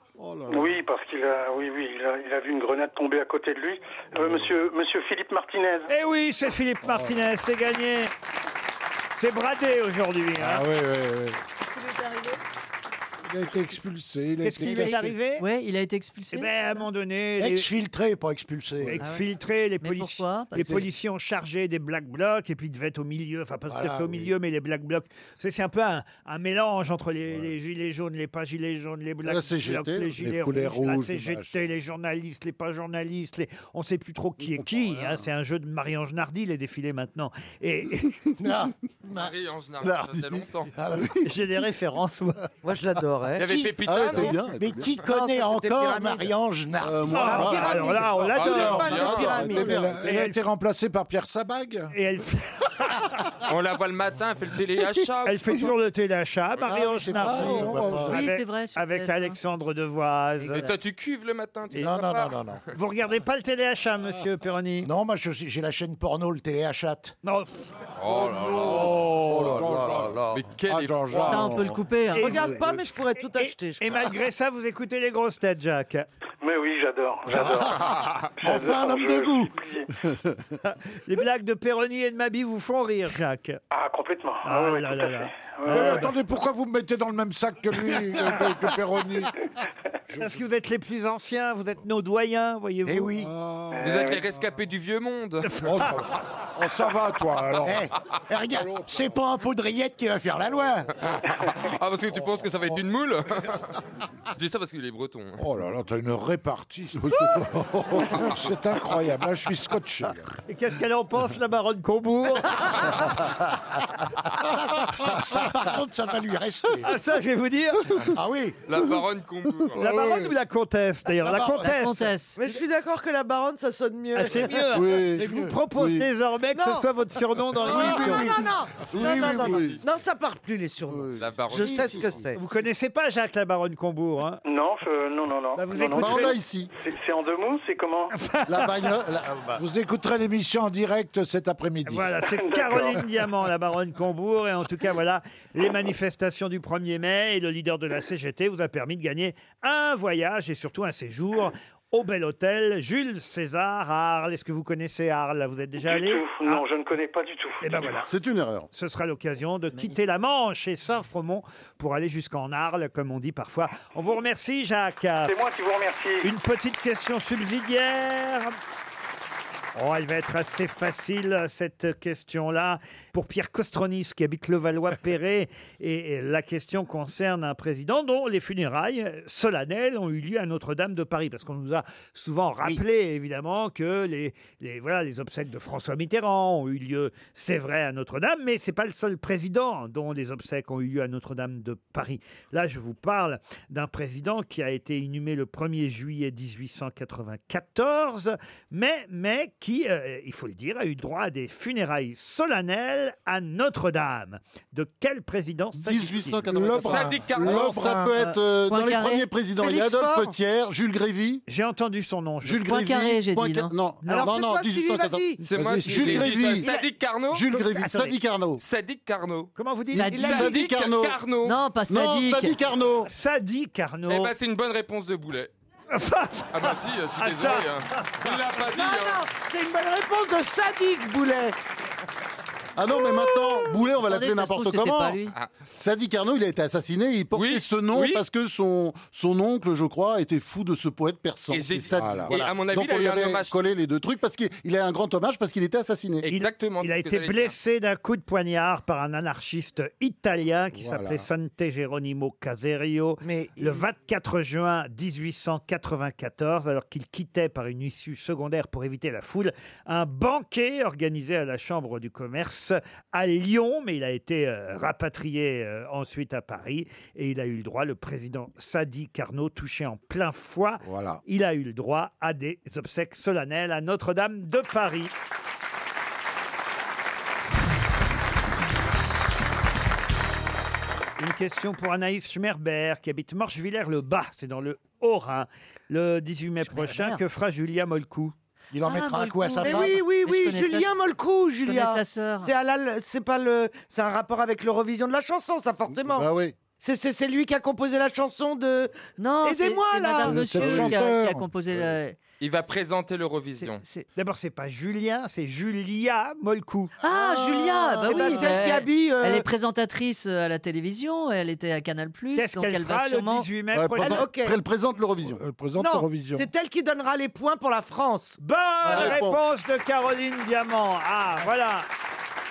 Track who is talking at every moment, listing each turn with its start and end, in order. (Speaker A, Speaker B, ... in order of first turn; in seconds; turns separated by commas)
Speaker A: 0.2-0.8, Speaker B: 0.5-5.9, Speaker A: 4.2-4.5, Speaker C: 5.9-8.1, Speaker A: 6.8-7.2, Speaker C: 9.2-10.7, Speaker A: 10.4-11.4, Speaker A: 13.2-15.2, Speaker C: 14.4-15.5, Speaker D: 14.6-16.8, Speaker C: 16.3-17.7, Speaker E: 17.4-19.0, Speaker C: 18.9-38.2, Speaker D: 19.0-19.2, Speaker D: 19.8-20.8, Speaker E: 23.7-24.3, Speaker F: 29.2-30.1, Speaker A: 30.2-31.5, Speaker F: 34.6-35.1, Speaker E: 38.4-39.3, Speaker G: 39.1-40.7, Speaker F: 39.8-41.2, Speaker E: 40.8-41.1, Speaker C: 41.2-42.4, Speaker H: 42.6-43.6, Speaker G: 43.4-44.4, Speaker E: 43.4-47.6, Speaker F: 43.8-45.0, Speaker H: 45.0-46.3, Speaker F: 46.8-50.1, Speaker C: 47.1-49.1, Speaker H: 47.1-49.8, Speaker G: 48.2-49.4, Speaker A: 49.4-51.9, Speaker C: 50.0-50.4, Speaker C: 51.9-53.1, Speaker G: 53.5-55.6, Speaker C: 55.2-60.7, Speaker E: 56.7-58.1, Speaker A: 57.4-58.1, Speaker F: 57.4-58.0, Speaker D: 58.0-59.4, Speaker G: 60.5-62.6, Speaker E: 61.8-62.6, Speaker C: 62.7-64.9, Speaker E: 64.8-67.1, Speaker C: 67.2-67.5, Speaker G: 68.0-71.5, Speaker A: 68.3-71.8, Speaker F: 68.7-69.9, Speaker D: 71.2-72.5, Speaker C: 72.1-72.7, Speaker H: 72.2-74.1, Speaker C: 73.3-76.1, Speaker B: 76.4-77.9, Speaker E: 77.4-77.9, Speaker G: 77.7-78.3, Speaker B: 78.4-79.9, Speaker E: 78.4-79.5, Speaker C: 80.6-83.6, Speaker B: 83.7-86.1, Speaker C: 84.4-86.1, Speaker A: 85.7-89.4, Speaker A: 90.1-90.4, Speaker C: 90.2-93.1, Speaker E: 92.9-93.3, Speaker A: 93.2-94.2, Speaker B: 93.7-94.2, Speaker G: 93.8-95.6, Speaker C: 95.5-95.9, Speaker A: 95.6-97.9, Speaker E: 97.6-101.0, Speaker A: 98.5-99.2, Speaker G: 101.4-103.8, Speaker G: 104.3-105.4, Speaker A: 105.4-110.2, Speaker C: 110.5-112.9, Speaker E: 114.5-116.9, Speaker C: 116.8-118.0, Speaker E: 118.0-118.8, Speaker G: 118.7-120.0, Speaker C: 119.8-122.1, Speaker E: 121.2-121.7, Speaker D: 121.6-122.4, Speaker H: 122.4-124.7, Speaker C: 124.2-128.3, Speaker F: 124.7-126.1, Speaker H: 126.5-126.9, Speaker H: 127.6-132.4, Speaker E: 128.0-128.4, Speaker F: 128.9-129.8, Speaker F: 130.9-132.1, Speaker G: 131.2-132.2, Speaker C: 132.4-134.4, Speaker B: 134.4-138.1, Speaker C: 135.6-136.4, Speaker F: 135.8-136.7, Speaker C: 138.1-138.9, Speaker F: 138.5-139.6, Speaker A: 139.6-142.2, Speaker C: 141.9-156.6, Speaker B: 142.3-143.0, Speaker B: 155.8-158.0, Speaker C: 157.6-158.1, Speaker F: 158.0-158.7, Speaker C: 158.7-165.3, Speaker B: 165.2-166.3, Speaker C: 166.2-168.6, Speaker C: 169.8-206.4, Speaker F: 205.8-211.4, Speaker A: 206.5-208.2, Speaker G: 206.8-207.8, Speaker D: 208.2-209.3, Speaker H: 209.6-210.3, Speaker C: 211.5-212.7, Speaker F: 212.4-216.7, Speaker D: 212.6-213.8, Speaker C: 214.0-214.3, Speaker H: 214.1-215.4, Speaker G: 215.4-217.5, Speaker A: 215.5-216.5, Speaker H: 216.6-216.9, Speaker F: 217.3-218.6, Speaker C: 217.5-218.2, Speaker G: 218.6-219.5, Speaker C: 219.6-220.3, Speaker D: 219.9-220.5, Speaker F: 219.9-221.3, Speaker H: 220.1-220.5, Speaker G: 220.1-221.6, Speaker D: 221.4-222.6, Speaker F: 221.9-223.1, Speaker C: 223.1-224.3, Speaker G: 224.1-225.5, Speaker C: 225.9-228.4, Speaker G: 226.5-229.3, Speaker H: 228.7-231.6, Speaker F: 232.8-235.2, Speaker D: 233.9-235.3, Speaker F: 235.7-246.3, Speaker G: 237.3-238.2, Speaker G: 241.5-243.6, Speaker A: 242.0-242.4, Speaker G: 246.2-247.6, Speaker C: 246.3-275.1, Speaker A: 250.7-251.3, Speaker H: 253.2-253.8, Speaker A: 270.8-271.2, Speaker C: 281.2-288.3, Speaker D: 286.6-287.2, Speaker E: 288.7-290.0, Speaker D: 288.8-291.0, Speaker H: 289.6-300.8, Speaker D: 291.6-292.5, Speaker F: 295.9-296.6, Speaker D: 299.2-302.2, Speaker A: 300.2-301.5, Speaker G: 302.4-303.8, Speaker D: 303.6-304.1, Speaker C: 304.2-306.9, Speaker D: 307.0-313.5, Speaker H: 307.1-309.5, Speaker C: 312.4-314.3, Speaker F: 313.7-315.4, Speaker H: 314.0-314.6, Speaker A: 315.2-316.5, Speaker H: 315.8-319.2, Speaker C: 318.4-321.9, Speaker F: 318.9-319.4